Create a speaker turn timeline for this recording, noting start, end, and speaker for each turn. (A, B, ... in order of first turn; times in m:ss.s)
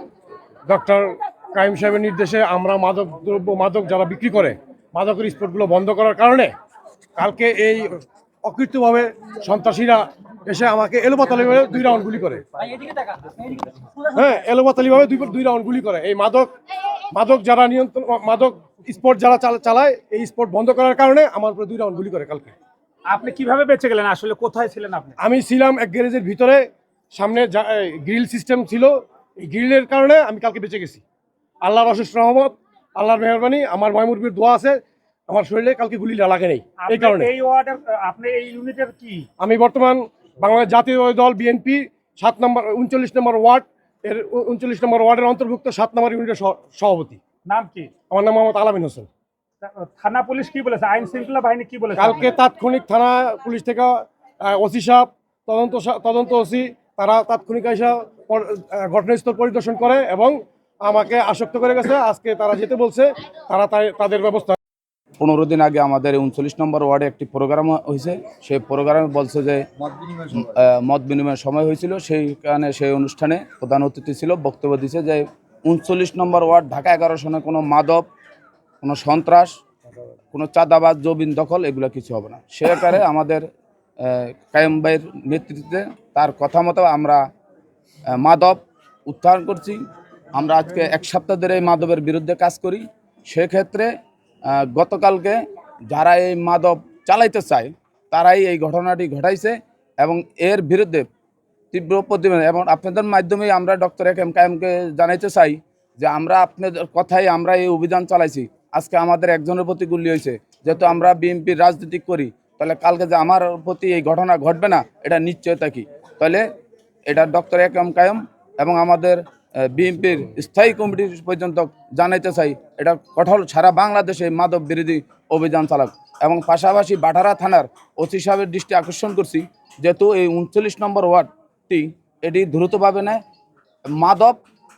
0:00.6-0:06.5 A
0:07.2-0:12.5 A
0:12.8-0:13.4 B
0:14.0-0:22.6 A
0:23.1-0:25.1 B
0:25.2-0:31.0 A
0:31.6-0:37.3 A
0:36.8-0:39.3 B
0:39.4-0:47.2 A
0:47.4-0:47.9 B
0:48.1-0:49.1 A
0:49.6-0:52.3 B
0:52.0-1:04.6 A
1:05.2-1:18.0 C
1:18.8-1:19.6 C
1:20.3-1:23.4 C
1:24.0-1:27.2 C
1:28.1-1:29.8 C
1:30.3-1:33.9 C
1:34.5-1:41.1 C
1:41.7-1:56.4 C
1:57.1-2:13.2 C
2:14.0-2:14.4 C